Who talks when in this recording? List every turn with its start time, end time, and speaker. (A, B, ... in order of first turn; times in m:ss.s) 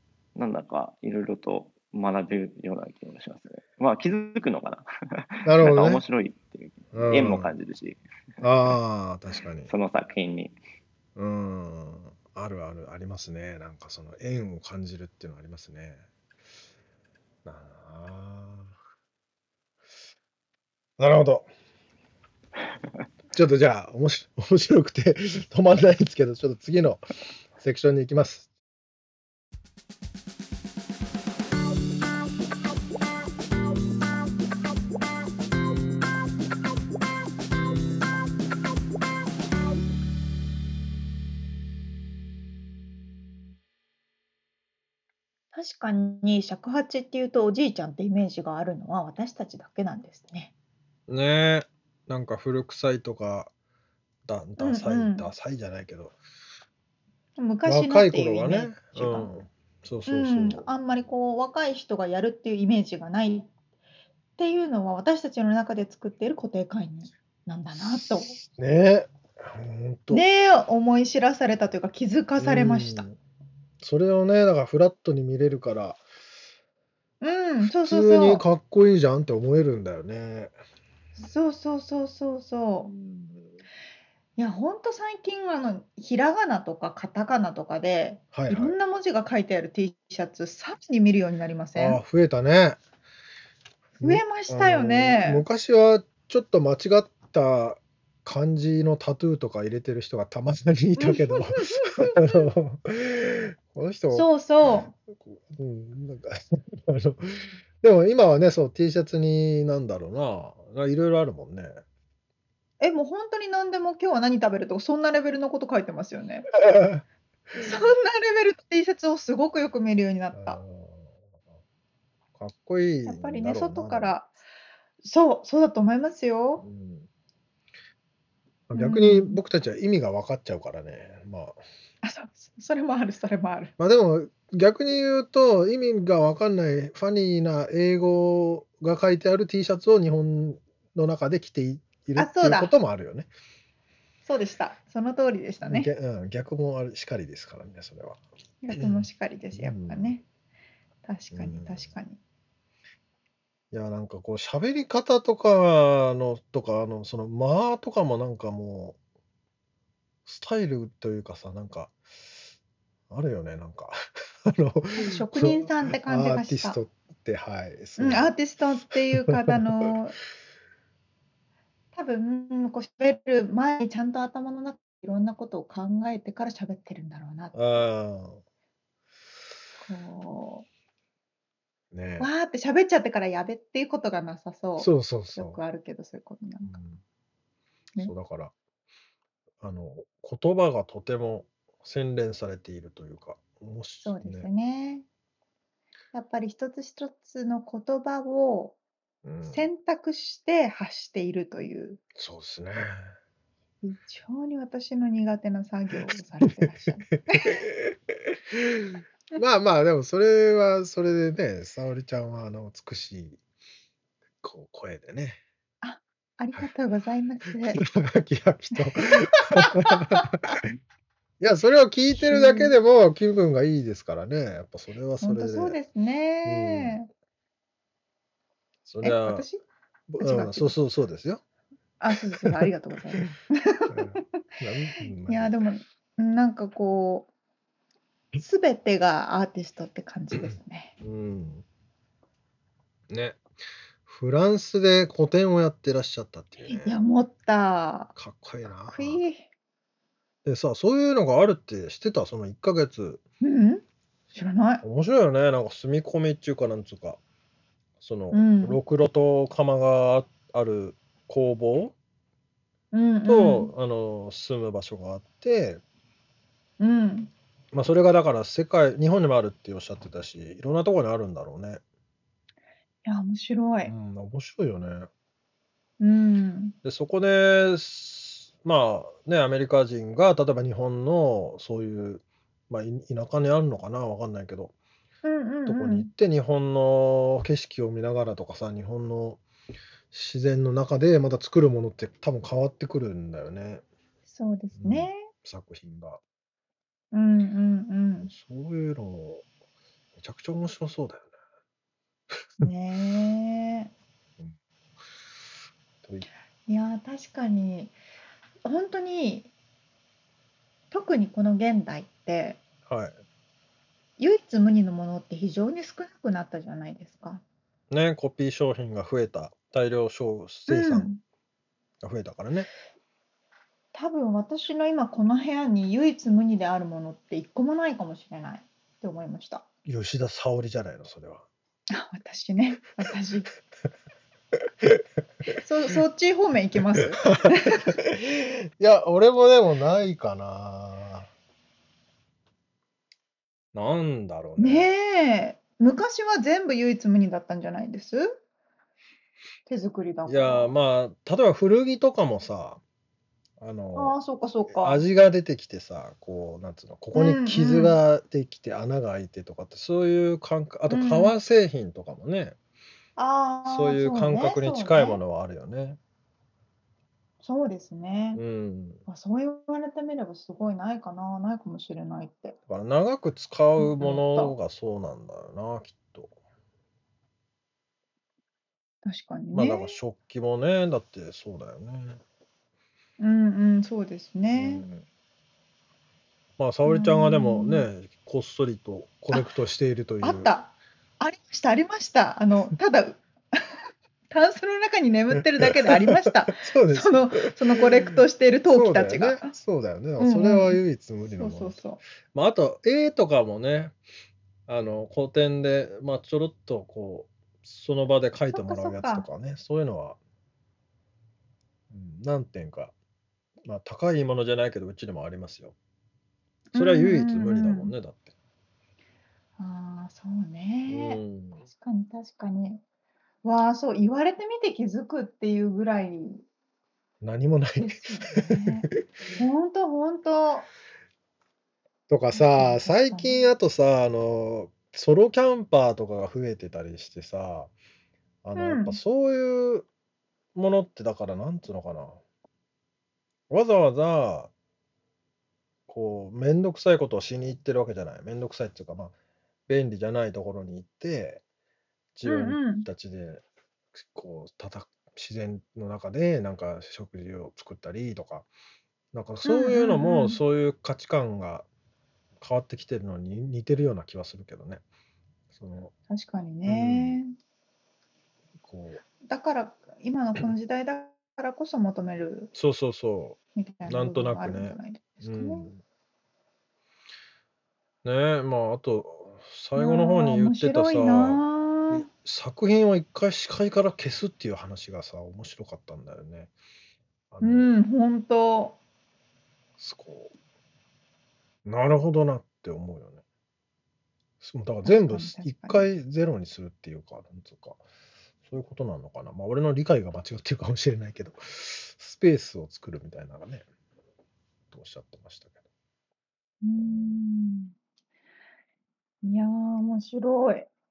0:00.4-0:08.0 A
0:05.4-0:06.0 B
0:06.9-0:07.5 B
0:08.4-0:09.7 B
0:09.7-0:10.6 A
0:11.2-0:16.0 B
0:17.4-0:18.7 B
0:21.0-0:21.5 B
0:23.3-0:28.5 B
0:45.5-0:50.5 C
0:51.1-0:53.5 B
0:54.3-0:56.2 B
0:54.6-0:55.3 C
0:57.4-0:59.3 C
0:57.7-1:00.6 B
1:00.1-1:03.5 C
1:04.4-1:08.4 C
1:07.8-1:10.2 B
1:10.1-1:13.1 C
1:12.4-1:13.2 B
1:13.8-1:16.0 B
1:17.2-1:18.4 C
1:17.6-1:20.5 B
1:21.2-1:22.9 C
1:22.9-1:23.5 B
1:24.4-1:32.0 C
1:28.3-1:28.7 B
1:31.8-1:32.8 B
1:34.0-1:35.4 C
1:34.0-1:51.8 B
1:41.0-1:42.5 C
1:44.1-1:44.9 C
1:52.8-1:56.5 C
1:56.6-1:57.0 B
1:57.6-2:00.6 C
2:00.3-2:01.1 B
2:02.4-2:04.1 B
2:03.1-2:04.3 C
2:05.0-2:06.7 C
2:06.6-2:07.1 B
2:08.7-2:11.6 B
2:08.8-2:09.4 C
2:12.0-2:13.7 C
2:13.8-2:23.3 B
2:22.2-2:22.8 C
2:24.2-2:25.9 C
2:25.6-2:28.2 B
2:28.6-2:30.2 C
2:28.7-2:30.1 B
2:31.1-2:32.2 C
2:31.3-2:31.9 B
2:33.7-2:39.0 B
2:40.3-2:42.0 B
2:43.1-2:48.4 B
2:45.0-2:46.8 C
2:48.0-2:50.2 C
2:48.9-2:49.6 B
2:51.9-2:57.9 C
2:57.5-2:58.4 B
2:59.8-3:00.7 C
3:01.9-3:02.3 B
3:02.2-3:06.8 C
3:04.8-3:05.6 B
3:06.7-3:07.0 B
3:08.0-3:08.5 B
3:09.6-3:14.5 B
3:14.0-3:15.1 C
3:16.1-3:18.8 C
3:19.2-3:19.6 B
3:19.4-3:22.0 C
3:22.2-3:23.1 B
3:23.8-3:27.6 C
3:26.4-3:33.4 B
3:34.4-3:35.4 B
3:35.8-3:37.8 C
3:37.7-3:40.4 B
3:38.8-3:40.3 C
3:41.4-3:45.8 B
3:42.3-3:42.7 C
3:45.2-3:47.1 C
3:46.4-3:47.0 B
3:48.9-3:49.5 B
3:49.0-3:49.6 C
3:50.1-3:51.4 B
3:50.2-3:50.7 C
3:52.0-3:54.0 C
3:52.1-3:53.3 B
3:53.9-3:55.5 B
3:55.3-3:57.3 C
3:58.4-4:00.9 C
4:00.4-4:01.6 B
4:03.1-4:03.5 B
4:04.0-4:07.0 B
4:06.6-4:08.1 C
4:08.2-4:09.2 B
4:08.9-4:09.5 C
4:10.4-4:13.2 B
4:13.4-4:14.8 C
4:14.8-4:17.2 B
4:18.0-4:22.0 B
4:18.3-4:18.8 C
4:22.9-4:23.7 C
4:23.3-4:25.8 B
4:26.8-4:27.3 C
4:27.7-4:31.8 B
4:33.0-4:33.9 C
4:33.8-4:35.1 B
4:36.0-4:36.8 C
4:36.8-4:44.7 B
4:45.2-4:46.1 C
4:45.7-4:49.4 B
4:50.1-4:53.8 B
4:54.3-4:55.3 C
4:54.8-4:56.2 B
4:57.1-4:58.3 C
4:58.2-4:59.5 B
5:00.2-5:01.3 B
5:02.6-5:03.9 C
5:06.7-5:08.0 C
5:08.6-5:09.5 C
5:10.9-5:12.6 C
5:12.9-5:13.2 B
5:14.2-5:17.4 C
5:17.9-5:21.1 B
5:20.7-5:21.2 C
5:22.0-5:22.7 B
5:23.9-5:29.6 C
5:29.8-5:31.5 B
5:31.9-5:33.5 C
5:35.6-5:37.9 C
5:37.2-5:41.3 B
5:43.7-5:44.9 B
5:44.6-5:48.4 C
5:49.7-5:50.7 C
5:50.3-5:52.8 B
5:53.6-5:54.2 B
5:54.0-5:55.0 C
5:54.7-6:02.6 B
5:57.1-5:58.0 C
6:00.9-6:01.3 C
6:03.2-6:05.2 C
6:03.6-6:06.0 B
6:07.4-6:08.4 C
6:08.4-6:09.0 B
6:09.1-6:12.6 C
6:12.7-6:16.3 B
6:13.8-6:14.6 C
6:19.0-6:20.0 C
6:19.5-6:22.2 B
6:23.2-6:24.9 C
6:24.5-6:25.0 B
6:26.6-6:30.5 B
6:26.9-6:27.9 C
6:30.2-6:33.6 C
6:34.3-6:39.5 C
6:35.3-6:38.2 B
6:38.7-6:41.8 B
6:40.2-6:40.8 C
6:41.4-6:42.0 C
6:42.3-6:44.0 B
6:44.7-6:50.2 B
6:48.5-6:49.3 C
6:51.9-6:52.9 B
6:53.6-6:55.8 B
6:56.7-6:57.9 C
6:56.8-6:58.3 B
6:59.6-7:02.8 C
7:00.9-7:01.6 B
7:03.4-7:06.4 C
7:07.2-7:08.8 B
7:07.8-7:10.7 C
7:12.1-7:17.7 B
7:12.3-7:13.4 C
7:18.4-7:19.9 B
7:18.6-7:19.0 C
7:20.6-7:22.2 B
7:23.5-7:24.5 B
7:25.9-7:29.1 B
7:29.7-7:31.4 B
7:32.2-7:33.4 B
7:32.2-7:32.9 C
7:33.9-7:38.5 B
7:39.1-7:41.7 B
7:39.4-7:40.4 C
7:42.4-7:44.8 B
7:45.5-7:45.9 B
7:46.1-7:47.3 C
7:46.7-7:47.2 B
7:48.6-7:49.0 B
7:49.2-7:52.5 C
7:52.6-7:55.8 B
7:53.6-7:55.7 C
7:58.0-8:06.5 B
7:59.8-8:02.1 C
8:07.3-8:07.7 B
8:07.4-8:08.8 C
8:09.8-8:10.3 B
8:11.6-8:13.2 B
8:14.4-8:17.8 B
8:14.8-8:15.9 C
8:18.5-8:23.7 B
8:24.7-8:25.6 B
8:26.6-8:27.7 C
8:26.7-8:27.2 B
8:29.2-8:30.7 C